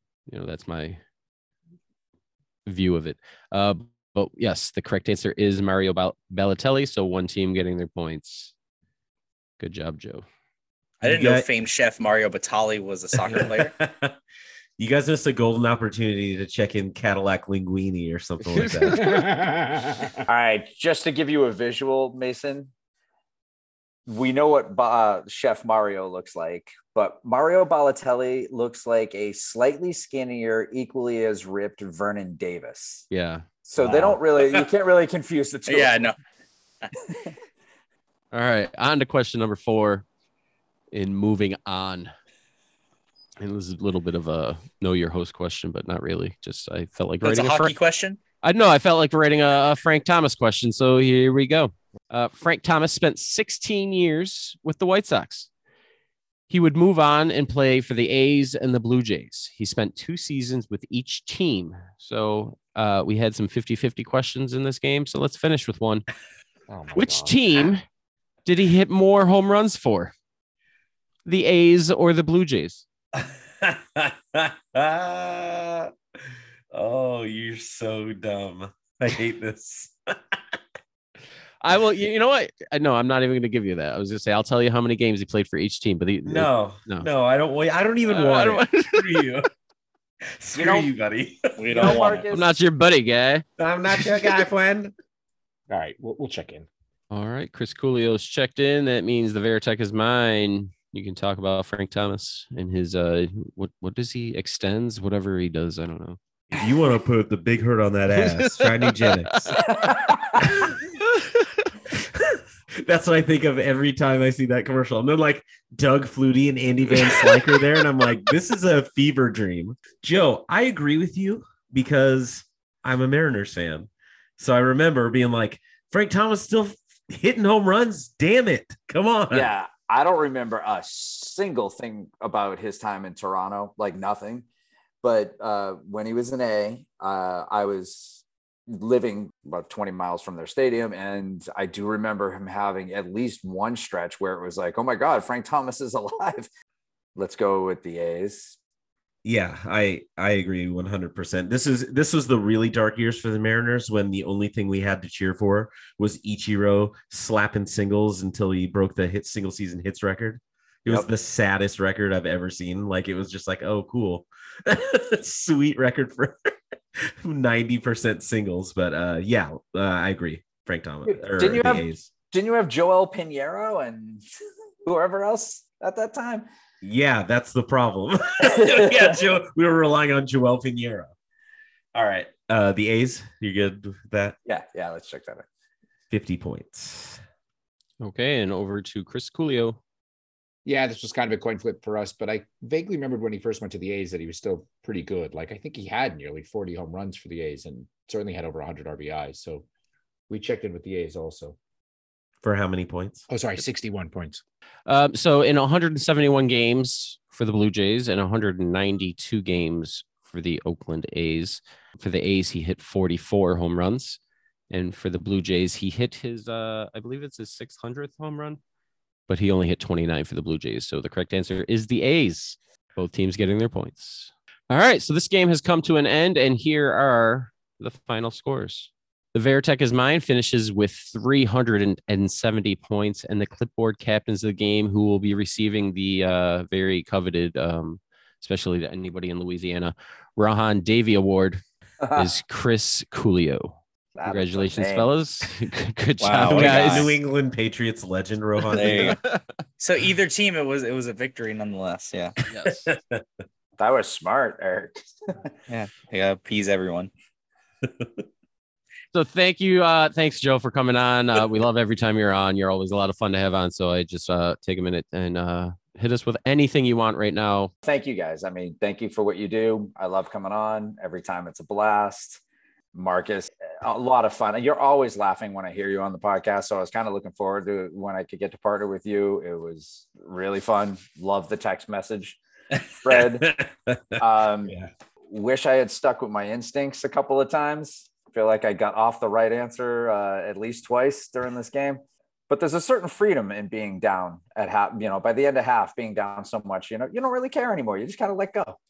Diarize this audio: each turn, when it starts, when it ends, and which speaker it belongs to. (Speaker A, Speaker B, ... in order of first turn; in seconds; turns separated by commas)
Speaker A: 0.3-1.0, Speaker A: 2.7-8.5, Speaker A: 9.6-10.3, Speaker B: 11.0-13.7, Speaker C: 11.0-11.5, Speaker C: 13.3-14.2, Speaker C: 14.8-19.3, Speaker A: 18.6-19.3, Speaker D: 19.1-20.1, Speaker E: 20.3-22.7, Speaker E: 24.1-33.0, Speaker A: 33.1-33.9, Speaker E: 33.7-36.1, Speaker B: 35.7-36.1, Speaker A: 38.3-40.0, Speaker A: 40.9-42.1, Speaker A: 43.4-47.7, Speaker B: 47.2-48.2, Speaker A: 48.4-55.5, Speaker A: 56.5-66.1, Speaker D: 66.7-67.4, Speaker A: 66.9-67.8, Speaker A: 68.5-70.1, Speaker A: 71.2-72.8, Speaker C: 73.2-75.9, Speaker C: 76.7-80.3, Speaker A: 81.6-87.1, Speaker C: 86.3-89.5, Speaker A: 88.0-89.3, Speaker C: 90.4-92.0, Speaker E: 90.6-90.9, Speaker B: 91.6-92.2, Speaker E: 91.7-92.5, Speaker A: 92.3-93.5, Speaker C: 93.6-94.9, Speaker D: 95.7-96.7, Speaker A: 97.1-106.2, Speaker C: 106.5-109.5, Speaker A: 108.1-109.7, Speaker E: 109.6-110.3, Speaker C: 110.4-110.8, Speaker C: 111.9-129.5, Speaker E: 129.3-134.5, Speaker E: 135.0-146.5, Speaker E: 147.2-148.6, Speaker C: 149.2-166.5, Speaker C: 167.0-172.1, Speaker E: 171.1-174.2, Speaker E: 174.8-176.5, Speaker C: 176.8-181.1, Speaker E: 178.4-179.3, Speaker C: 181.9-184.4, Speaker E: 184.5-185.5, Speaker C: 186.1-187.2, Speaker A: 188.0-189.8, Speaker D: 190.7-199.7, Speaker D: 200.3-201.6, Speaker C: 202.4-203.3, Speaker D: 203.3-204.4, Speaker A: 204.9-214.2, Speaker A: 214.7-218.6, Speaker A: 219.3-241.6, Speaker E: 242.0-242.3, Speaker A: 242.2-247.1, Speaker E: 244.2-245.1, Speaker B: 246.2-247.1, Speaker C: 246.4-249.2, Speaker B: 248.7-249.2, Speaker A: 248.9-249.4, Speaker B: 249.8-252.4, Speaker A: 252.5-252.9, Speaker C: 252.9-253.2, Speaker E: 253.8-255.6, Speaker B: 255.7-257.1, Speaker C: 257.8-258.2, Speaker A: 259.1-267.7, Speaker E: 267.8-272.4, Speaker E: 272.9-283.5, Speaker C: 283.1-284.9, Speaker E: 284.2-284.8, Speaker E: 285.3-298.8